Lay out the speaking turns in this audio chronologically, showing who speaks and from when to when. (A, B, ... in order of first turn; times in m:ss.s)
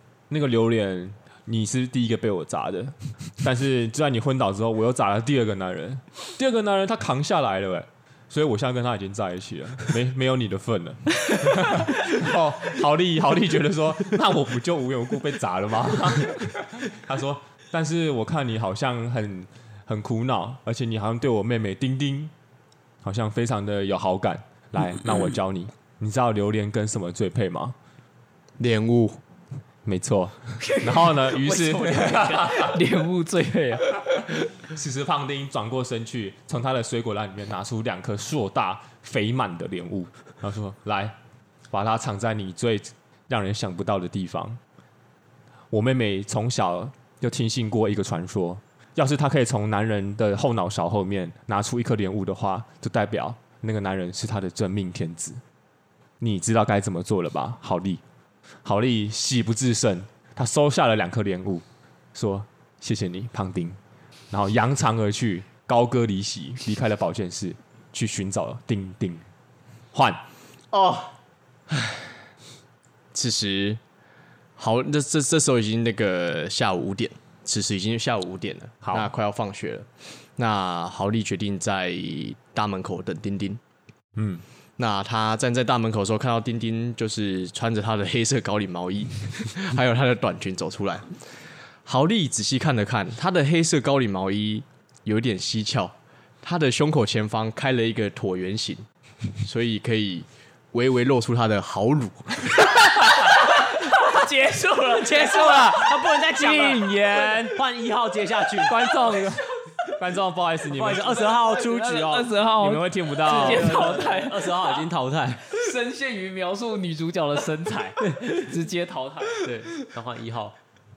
0:00.3-0:22.3 A
0:23.0-0:27.8 A
0:28.6-0:29.2 B
0:29.8-0:32.8 A
0:30.6-0:34.3 C
0:34.6-0:41.2 A
0:41.7-0:44.6 A
0:45.7-0:55.4 A
0:56.2-0:58.0 A
0:58.6-1:03.8 A
1:04.3-1:09.2 A
1:09.9-1:10.2 A
1:10.7-1:11.1 B
1:13.1-1:13.8 B
1:14.6-1:23.6 B
1:18.8-1:19.1 A
1:24.2-1:24.4 A
1:24.8-1:31.1 B
1:31.8-1:38.8 B
1:39.4-1:42.6 B
1:42.8-1:46.5 C
1:44.9-1:48.8 D
1:45.4-1:47.6 A
1:48.6-1:51.3 A
1:48.9-1:49.4 C
1:50.7-1:52.3 D
1:51.3-1:54.9 C
1:52.6-1:53.9 A
1:53.2-1:55.5 D
1:55.4-1:59.5 C
1:58.0-1:58.5 D
1:59.4-2:00.6 D